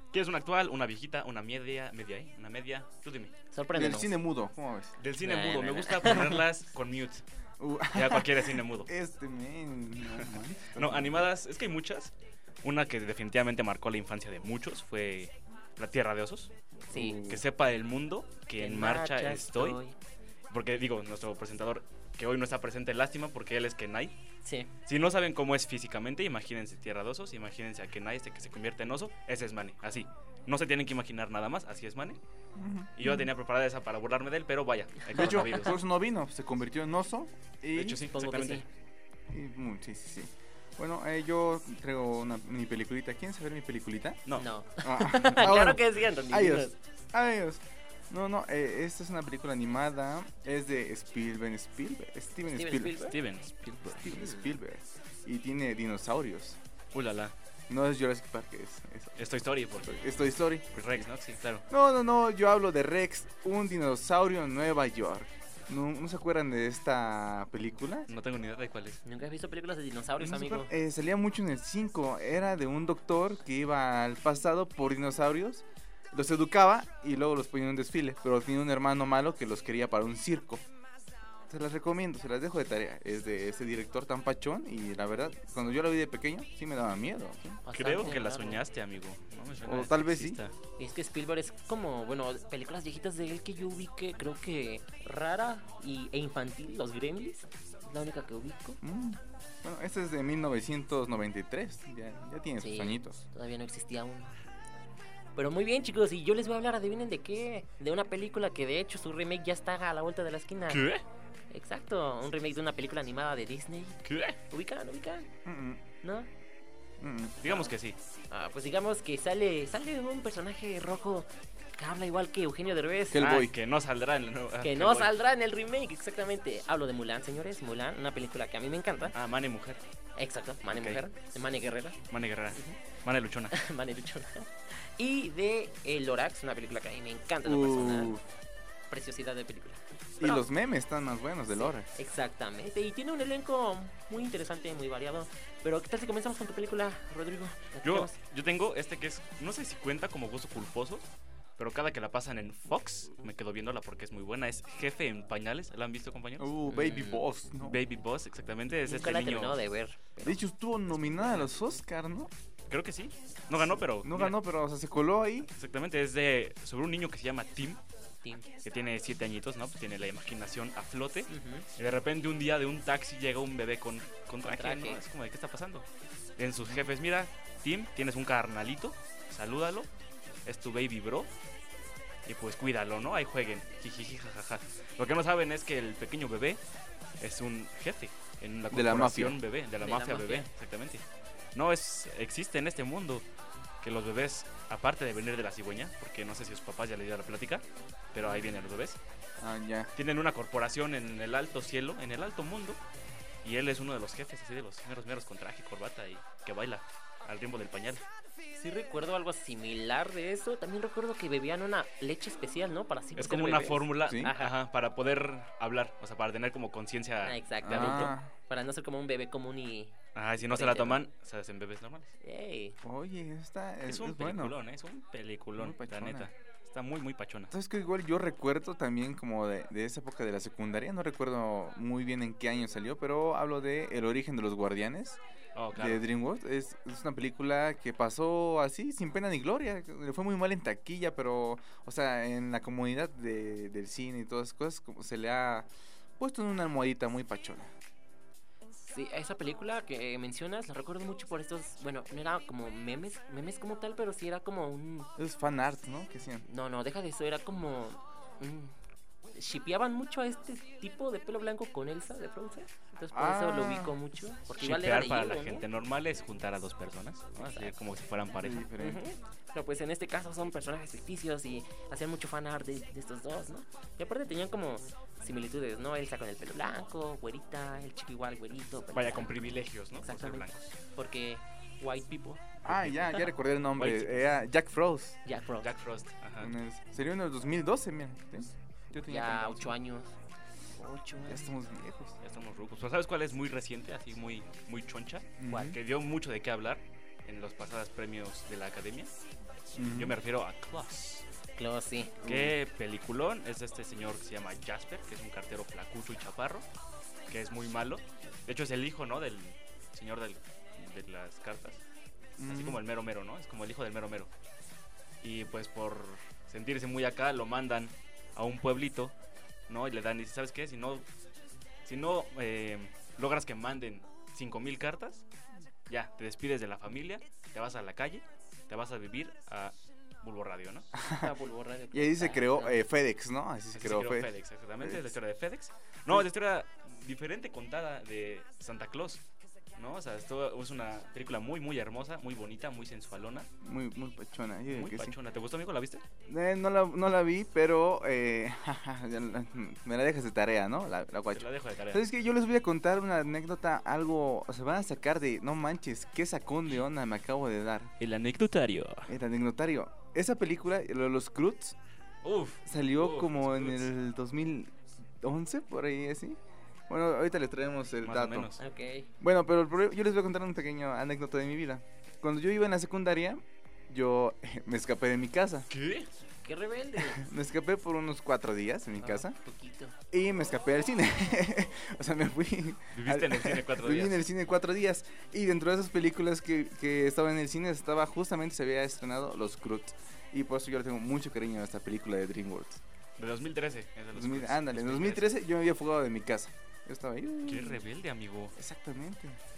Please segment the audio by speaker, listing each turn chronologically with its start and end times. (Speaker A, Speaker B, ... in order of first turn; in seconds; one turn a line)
Speaker A: 0.1-3.3
Speaker B: 3.5-4.1
Speaker C: 3.7-5.0
Speaker A: 5.0-7.2
Speaker B: 5.2-6.4
Speaker C: 7.6-11.3
Speaker A: 7.9-8.9
Speaker A: 10.1-12.1
Speaker A: 12.6-16.5
Speaker B: 16.9-17.2
Speaker C: 16.9-17.4
Speaker A: 17.1-19.8
Speaker B: 18.6-19.9
Speaker A: 20.5-24.2
Speaker B: 24.4-24.7
Speaker A: 24.9-32.2
Speaker C: 32.5-33.3
Speaker A: 33.0-35.8
Speaker C: 35.1-38.0
Speaker A: 37.7-38.7
Speaker B: 38.1-38.6
Speaker C: 39.3-44.2
Speaker B: 44.4-46.7
Speaker C: 44.8-53.1
Speaker B: 52.5-53.1
Speaker A: 53.1-54.4
Speaker C: 53.8-56.6
Speaker A: 56.9-57.3
Speaker C: 57.7-59.2
Speaker A: 59.2-60.0
Speaker C: 59.8-61.1
Speaker A: 60.7-61.6
Speaker C: 61.7-68.1
Speaker A: 68.1-69.0
Speaker B: 69.0-70.7
Speaker C: 70.2-80.6
Speaker C: 81.5-87.6
Speaker B: 87.6-88.6
Speaker A: 87.7-90.5
Speaker C: 89.6-90.4
Speaker B: 90.8-98.8
Speaker C: 98.8-103.2
Speaker B: 102.6-104.4
Speaker B: 105.3-110.8
Speaker A: 110.7-111.0
Speaker B: 111.5-115.3
Speaker A: 114.0-114.4
Speaker C: 115.4-115.8
Speaker B: 116.0-116.3
Speaker C: 117.0-117.5
Speaker A: 117.4-118.0
Speaker B: 118.3-123.2
Speaker C: 123.1-123.5
Speaker A: 123.1-125.1
Speaker B: 124.6-129.1
Speaker A: 129.1-129.8
Speaker B: 130.2-132.0
Speaker A: 130.7-131.0
Speaker A: 132.1-133.6
Speaker B: 133.5-138.2
Speaker C: 137.4-138.2
Speaker B: 138.9-140.4
Speaker C: 140.2-141.9
Speaker B: 141.5-148.2
Speaker A: 147.8-156.5
Speaker C: 156.4-157.8
Speaker B: 156.7-157.2
Speaker A: 157.6-159.6
Speaker B: 158.9-160.4
Speaker C: 160.2-162.3
Speaker A: 162.7-164.4
Speaker C: 164.0-165.5
Speaker A: 165.6-167.8
Speaker B: 168.2-168.5
Speaker A: 168.6-175.8
Speaker B: 171.3-171.7
Speaker B: 174.4-175.0
Speaker A: 176.4-179.9
Speaker A: 180.4-181.3
Speaker A: 182.2-186.6
Speaker A: 187.2-191.0
Speaker C: 188.7-189.4
Speaker B: 189.8-190.5
Speaker A: 191.5-193.2
Speaker A: 193.8-199.0
Speaker C: 199.4-199.9
Speaker A: 199.9-202.8
Speaker A: 203.4-208.0
Speaker B: 208.5-214.5
Speaker A: 213.2-218.1
Speaker C: 214.1-214.3
Speaker B: 217.2-221.0
Speaker C: 217.6-218.3
Speaker A: 220.1-222.1
Speaker B: 222.2-222.8
Speaker C: 222.8-224.6
Speaker A: 223.8-227.5
Speaker C: 225.6-226.3
Speaker C: 227.5-235.2
Speaker A: 235.5-236.0
Speaker C: 235.7-247.7
Speaker B: 248.9-255.1
Speaker C: 255.2-256.4
Speaker B: 256.5-258.7
Speaker B: 259.3-265.6
Speaker C: 263.1-263.9
Speaker A: 264.6-268.7
Speaker B: 267.4-267.7
Speaker C: 268.3-269.0
Speaker B: 268.8-279.4
Speaker A: 278.9-280.7
Speaker B: 280.0-282.5
Speaker C: 282.6-285.2
Speaker A: 282.6-283.2
Speaker A: 283.7-284.2
Speaker B: 285.2-285.7
Speaker A: 285.6-286.5
Speaker C: 286.4-289.7
Speaker B: 289.1-290.1
Speaker B: 290.7-291.5
Speaker C: 291.2-292.2
Speaker A: 292.2-299.1
Speaker C: 295.4-295.8
Speaker B: 295.5-295.7
Speaker C: 299.7-300.1
Speaker A: 299.8-301.2
Speaker B: 301.6-302.1
Speaker C: 302.2-302.5
Speaker A: 302.2-306.6
Speaker A: 307.3-311.8
Speaker C: 312.4-312.8
Speaker A: 312.5-314.3
Speaker A: 315.2-319.1
Speaker A: 319.7-321.1
Speaker A: 321.8-325.2
Speaker A: 325.9-330.9
Speaker C: 330.9-331.3
Speaker B: 331.2-332.8
Speaker C: 331.9-334.3
Speaker A: 333.7-339.2
Speaker C: 334.8-335.1
Speaker A: 339.8-343.5
Speaker C: 343.6-345.2
Speaker A: 344.7-346.0
Speaker C: 346.3-357.9
Speaker A: 351.3-352.0
Speaker A: 358.0-359.1
Speaker C: 359.1-361.8
Speaker A: 362.2-363.9
Speaker C: 362.6-366.4
Speaker C: 366.9-368.5
Speaker A: 368.0-368.6
Speaker B: 368.6-369.1
Speaker C: 369.2-375.7
Speaker A: 375.7-376.1
Speaker B: 376.4-377.2
Speaker C: 377.1-379.4
Speaker B: 379.0-379.9
Speaker C: 380.1-392.8
Speaker A: 382.9-384.2
Speaker A: 393.2-395.3
Speaker C: 394.1-397.8
Speaker A: 397.4-398.5
Speaker C: 398.5-399.4